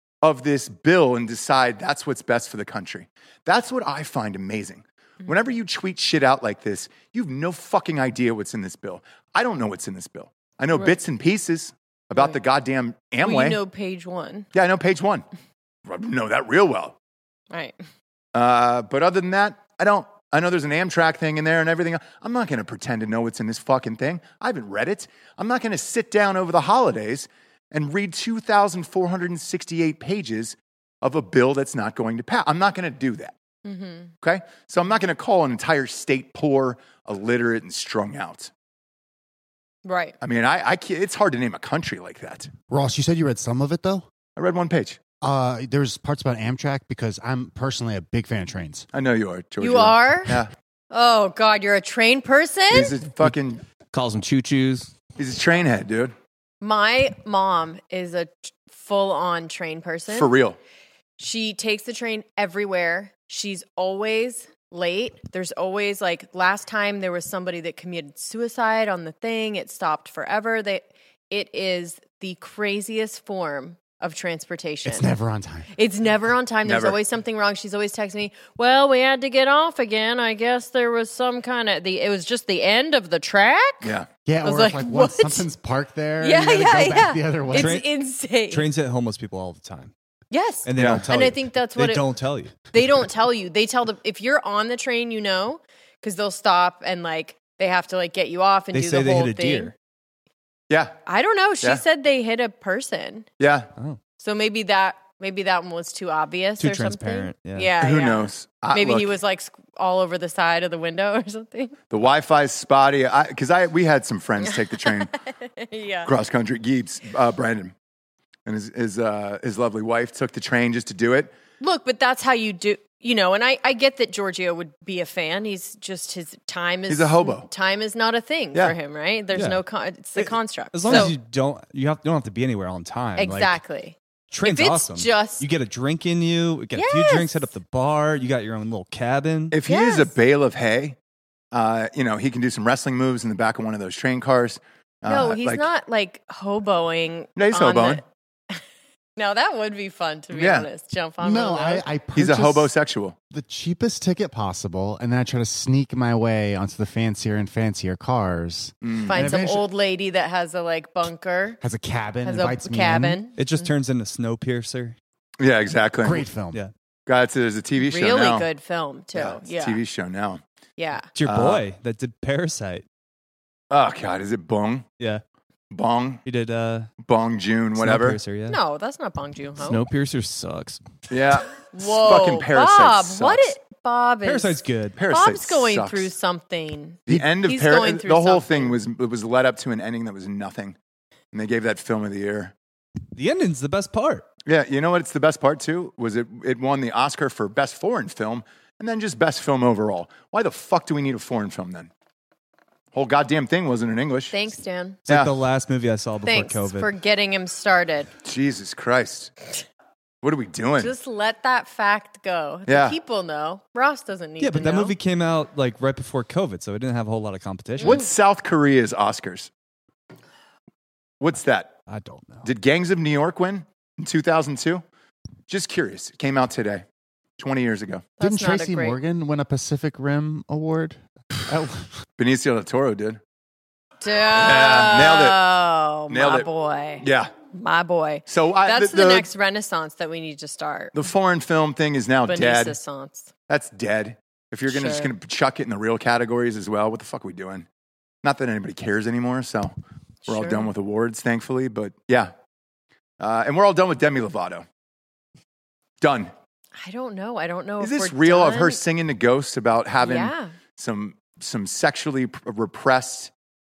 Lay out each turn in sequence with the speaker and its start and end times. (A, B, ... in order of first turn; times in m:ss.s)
0:00.2-0:13.6 A
0:10.7-0:11.0 B
0:13.2-0:14.5 B
0:14.5-0:15.2 A
0:15.8-0:17.0 A
0:17.5-0:17.8 B
0:18.3-0:33.3 A
0:33.6-0:34.1 B
0:34.2-0:38.5 A
0:39.8-0:40.2 B
0:40.2-0:42.5 A
0:42.7-0:44.1 C
0:44.4-0:45.0 A
0:45.2-0:48.9 C
0:48.9-0:50.5 A
0:49.6-0:50.4 B
0:50.9-0:52.9 B
0:52.7-0:53.6 A
0:53.9-0:54.9 D
0:55.2-0:56.1 A
0:56.6-1:00.3 B
1:00.1-1:00.6 A
1:01.2-1:15.1 B
1:14.8-1:15.7 C
1:15.7-1:23.9 B
1:16.6-1:17.0 A
1:23.8-1:24.1 A
1:24.2-1:27.8 C
1:24.4-1:25.4 B
1:26.2-1:28.7 B
1:27.5-1:27.8 E
1:28.5-1:29.9 E
1:30.3-1:32.1 B
1:30.6-1:32.8 E
1:30.7-1:31.0 A
1:32.7-1:39.7 B
1:38.7-1:39.7 E
1:40.7-1:40.9 A
1:41.0-1:43.3 B
1:43.4-1:43.7 A
1:44.2-1:51.7 B
1:46.6-1:47.7 E
1:47.8-1:49.1 A
1:51.9-1:55.1 A
1:54.4-1:56.1 B
1:56.0-1:57.7 A
1:58.4-2:01.3 A
2:01.6-2:11.1 B
2:06.9-2:07.5 A
2:09.3-2:09.6 E
2:10.2-2:13.6 E
2:10.8-2:11.1 A
2:13.2-2:15.4 B
2:14.3-2:19.5 E
2:16.7-2:17.5 B
2:19.5-2:21.0 A
2:19.6-2:20.1 B
2:21.5-2:25.7 A
2:25.1-2:28.6 B
2:27.4-2:28.0 A
2:29.2-2:31.8 B
2:30.3-2:30.7 A
2:31.2-2:32.7 C
2:32.1-2:33.2 A
2:33.3-2:39.7 C
2:38.8-2:39.3 A
2:39.0-2:41.6 B
2:41.6-2:43.2 C
2:42.2-2:43.7 B
2:43.4-2:45.0 E
2:45.4-2:46.3 A
2:46.0-2:46.6 C
2:47.0-2:48.5 A
2:47.8-2:49.8 B
2:49.1-2:50.4 A
2:50.8-2:51.1 B
2:51.1-2:52.8 E
2:51.2-2:51.6 A
2:53.7-2:54.8 A
2:55.7-2:56.2 A
2:56.2-2:56.9 E
2:57.0-2:58.2 A
2:57.8-2:58.6 E
2:58.5-2:59.8 B
2:59.6-3:00.8 D
3:01.1-3:03.5 A
3:01.7-3:08.8 B
3:04.2-3:05.0 E
3:05.0-3:06.1 A
3:07.1-3:10.8 A
3:11.3-3:12.5 A
3:13.1-3:14.2 E
3:14.4-3:21.9 A
3:22.9-3:24.3 A
3:24.3-3:25.0 B
3:25.0-3:26.9 E
3:26.2-3:28.1 B
3:28.2-3:29.3 A
3:30.2-3:30.9 A
3:30.8-3:34.9 B
3:32.7-3:33.0 A
3:34.4-3:38.0 E
3:37.8-3:39.5 A
3:41.2-3:41.7 A
3:41.9-3:42.5 E
3:42.4-3:44.8 A
3:45.5-3:46.8 A
3:47.4-3:48.1 A
3:48.2-3:49.0 B
3:48.2-3:51.9 C
3:52.2-3:53.2 A
3:54.0-4:00.9 B
3:54.3-3:55.4 A
3:56.1-3:56.5 A
3:57.0-3:57.3 A
3:58.3-3:59.3 A
4:00.9-4:02.8 A
4:02.3-4:03.3 B
4:03.5-4:07.6 A
4:04.7-4:05.1 B
4:08.2-4:09.7 A
4:10.2-4:10.7 B
4:10.3-4:12.3 A
4:13.2-4:14.6 A
4:16.0-4:16.3 A
4:16.8-4:18.8 B
4:17.8-4:23.3 A
4:20.0-4:20.5 B